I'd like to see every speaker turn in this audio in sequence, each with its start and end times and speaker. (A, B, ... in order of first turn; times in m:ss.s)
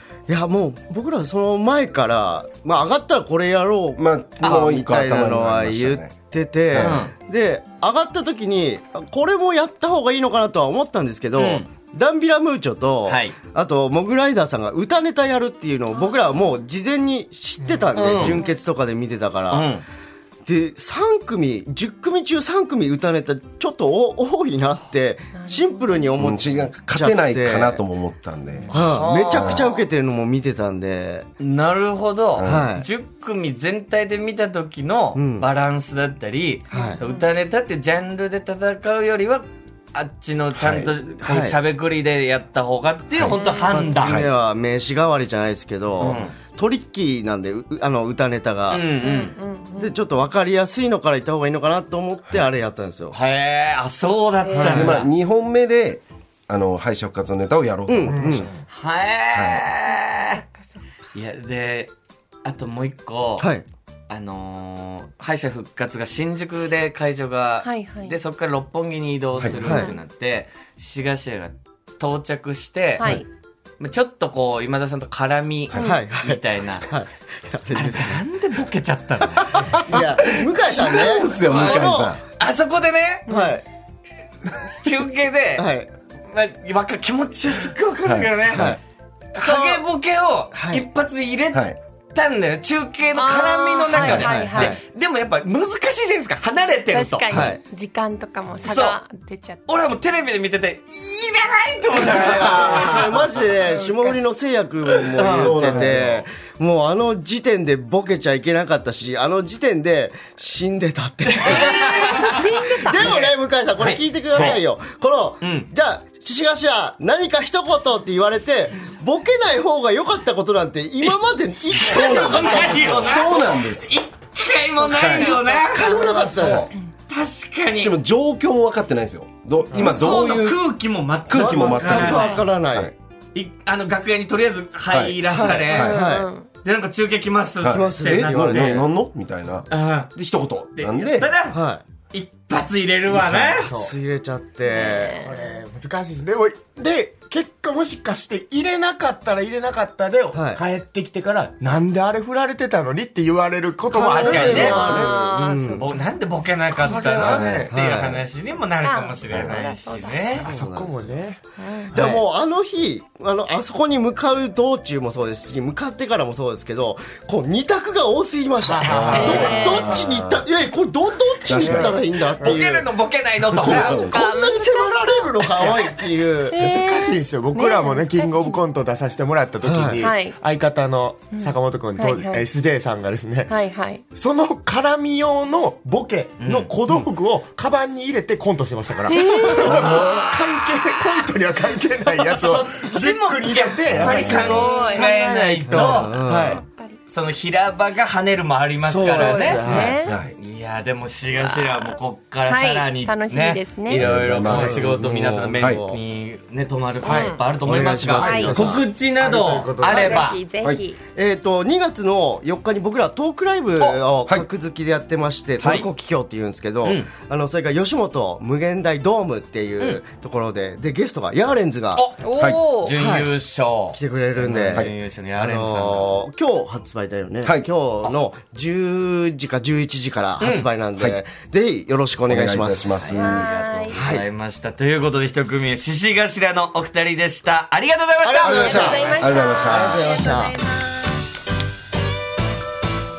0:00.3-0:19.7 A
0:04.0-0:07.1 B
0:06.8-0:07.1 C
0:11.4-0:11.7 C
0:13.1-0:13.4 C
0:16.1-0:16.4 D
0:17.6-0:17.9 E
0:18.0-0:18.4 C
0:18.0-0:18.5 D
0:18.1-0:18.4 B
0:19.5-0:19.8 C
0:20.4-0:27.8 A
0:25.3-0:26.2 D
0:26.2-0:28.7 B
0:28.7-0:29.8 C
0:28.7-0:31.3 A
0:29.2-0:29.7 B
0:31.4-0:44.2 C
0:32.4-0:32.7 B
0:32.4-0:32.9 A
0:35.2-0:35.5 A
0:36.7-0:37.2 D
0:36.7-0:37.0 A
0:40.6-0:41.0 B
0:41.2-0:41.6 A
0:43.2-0:44.3 B
0:43.3-0:43.8 D
0:43.7-0:48.9 A
0:46.0-0:46.4 C
0:48.7-0:49.4 C
0:49.0-0:50.0 D
0:49.8-0:53.2 A
0:53.1-0:55.1 C
0:54.4-0:55.0 D
0:54.6-0:58.5 B
0:57.9-0:58.5 A
0:58.1-0:58.4 E
0:58.7-1:00.4 C
0:59.3-0:59.7 B
0:59.8-1:00.8 D
1:01.2-1:01.9 C
1:02.4-1:03.5 C
1:03.4-1:03.7 A
1:04.1-1:13.2 C
1:07.6-1:08.2 D
1:09.4-1:09.7 B
1:09.6-1:09.9 A
1:09.6-1:10.0 D
1:13.0-1:13.3 D
1:13.8-1:16.9 C
1:15.7-1:16.0 D
1:15.8-1:18.2 A
1:17.8-1:19.8 C
1:19.6-1:22.2 A
1:19.7-1:22.2 B
1:21.4-1:23.3 C
1:23.3-1:23.6 D
1:23.3-1:23.6 A
1:24.4-1:25.7 C
1:25.6-1:25.9 A
1:26.3-1:28.8 C
1:28.0-1:28.8 B
1:28.5-1:28.8 A
1:29.3-1:37.5 C
1:29.4-1:29.8 D
1:30.5-1:30.9 A
1:33.1-1:34.8 D
1:34.0-1:34.4 B
1:34.1-1:34.8 A
1:36.9-1:39.8 D
1:37.3-1:37.6 A
1:38.6-1:39.0 C
1:39.7-1:43.3 C
1:42.0-2:03.1 A
1:42.0-1:43.3 B
1:42.6-1:44.2 D
1:45.2-1:46.1 C
1:45.3-1:46.2 B
1:51.5-1:53.2 D
1:52.0-1:52.3 C
1:53.0-1:54.6 C
1:55.4-1:55.7 C
2:01.7-2:06.5 C
2:01.9-2:04.0 B
2:04.8-2:06.7 D
2:04.9-2:05.4 B
2:05.7-2:06.7 A
2:07.1-2:08.0 C
2:07.7-2:10.7 B
2:09.8-2:12.4 C
2:11.3-2:12.9 B
2:11.3-2:12.9 A
2:12.1-2:12.4 D
2:13.3-2:16.0 C
2:14.9-2:16.1 B
2:15.3-2:16.3 A
2:15.7-2:16.5 D
2:16.6-2:18.8 C
2:17.6-2:21.3 B
2:17.7-2:18.9 A
2:19.7-2:20.1 C
2:20.8-2:21.6 C
2:21.5-2:21.8 A
2:22.1-2:23.7 C
2:23.1-2:23.6 B
2:23.4-2:23.9 E
2:23.7-2:25.2 A
2:24.7-2:25.0 C
2:24.8-2:25.5 D
2:25.1-2:35.1 E
2:30.3-2:30.6 A
2:33.9-2:35.9 A
2:34.2-2:37.3 D
2:34.2-2:34.8 C
2:34.8-2:35.1 B
2:35.8-2:40.4 C
2:36.7-2:37.6 E
2:37.2-2:37.7 B
2:37.7-2:38.2 A
2:38.8-2:40.3 D
2:39.3-2:39.6 B
2:40.1-2:42.2 E
2:40.3-2:41.3 A
2:41.6-2:42.0 D
2:41.9-2:52.9 A
2:48.7-2:49.9 E
2:48.8-2:50.5 B
2:48.9-2:49.6 C
2:49.1-2:50.0 D
2:51.4-2:52.0 B
2:51.6-2:51.9 E
2:52.4-2:52.7 E
2:52.4-2:54.0 C
2:53.6-2:56.6 A
2:53.6-2:54.3 B
2:53.7-2:55.3 D
2:56.5-2:58.6 D
2:56.6-3:03.6 E
2:59.6-3:00.0 A
3:00.0-3:00.4 D
3:01.3-3:02.4 D
3:03.5-3:04.0 D
3:04.2-3:16.6 E
3:06.4-3:07.0 C
3:09.1-3:09.8 D
3:09.5-3:10.3 C
3:12.2-3:16.3 C
3:13.9-3:14.7 B
3:14.4-3:15.2 D
3:15.8-3:16.6 A
3:15.8-3:17.0 D
3:17.1-3:30.4 C
3:18.8-3:19.9 A
3:19.1-3:20.2 D
3:19.9-3:20.4 B
3:21.4-3:22.0 D
3:22.5-3:24.1 D
3:24.0-3:24.8 B
3:24.4-3:26.0 A
3:24.5-3:24.9 E
3:25.6-3:25.8 B
3:27.0-3:27.4 D
3:27.6-3:28.9 A
3:27.8-3:30.3 E
3:28.2-3:28.6 D
3:29.8-3:31.0 D
3:30.6-3:30.9 B
3:31.1-3:42.1 A
3:35.6-3:35.9 C
3:36.8-3:37.1 C
3:42.0-3:46.1 C
3:42.2-3:43.0 D
3:42.4-3:42.8 B
3:43.0-3:43.3 A
3:43.9-3:53.1 A
3:47.4-3:47.7 B
3:50.4-3:50.7 C
3:51.0-3:51.2 B
3:52.3-3:53.6 B
3:53.0-3:59.0 C
3:53.1-3:54.0 D
3:53.9-3:54.3 A
3:58.2-4:00.6 A
3:58.4-4:01.2 D
3:58.4-4:00.2 B